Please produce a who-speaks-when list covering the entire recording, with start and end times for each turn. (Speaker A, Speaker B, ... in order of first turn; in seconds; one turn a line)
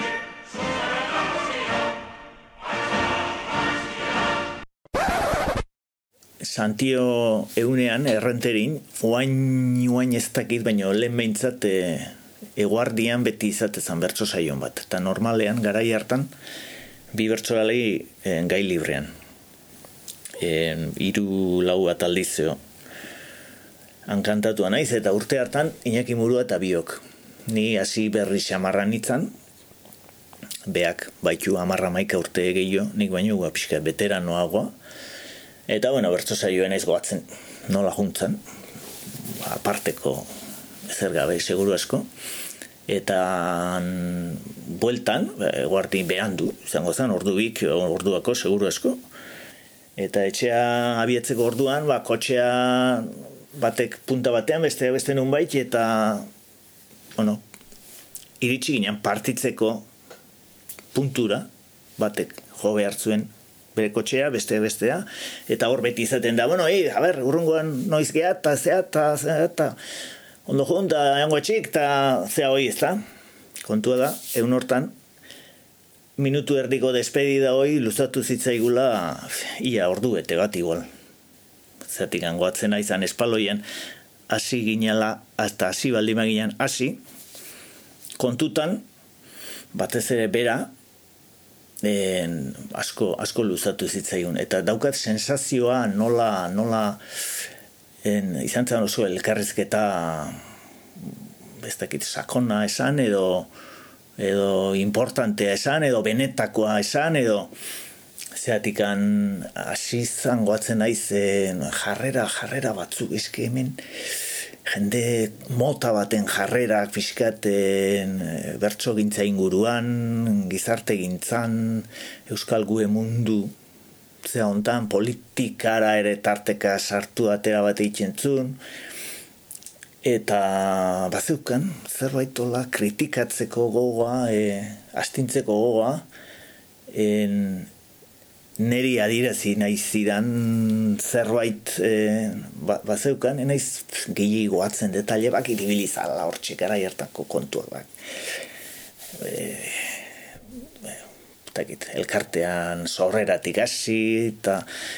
Speaker A: 6.4-16.3
Speaker A: 17.1-19.1
Speaker A: 20.4-22.6
Speaker A: 24.1-29.3
Speaker A: 30.6-34.7
Speaker A: 35.7-38.4
Speaker A: 39.2-40.3
Speaker A: 40.9-42.1
Speaker A: 42.9-49.0
Speaker A: 50.0-56.3
Speaker A: 57.1-57.4
Speaker A: 58.4-59.9
Speaker A: 60.9-69.8
Speaker A: 70.5-73.0
Speaker A: 73.6-74.9
Speaker A: 76.2-80.9
Speaker A: 81.8-83.6
Speaker A: 84.3-87.0
Speaker A: 88.2-88.8
Speaker A: 89.7-90.7
Speaker A: 91.8-97.0
Speaker A: 98.0-100.4
Speaker A: 101.6-103.5
Speaker A: 104.2-107.5
Speaker A: 108.3-123.5
Speaker A: 124.2-128.6
Speaker A: 130.0-136.1
Speaker A: 136.9-137.7
Speaker A: 138.6-147.9
Speaker A: 149.2-150.1
Speaker A: 151.5-154.6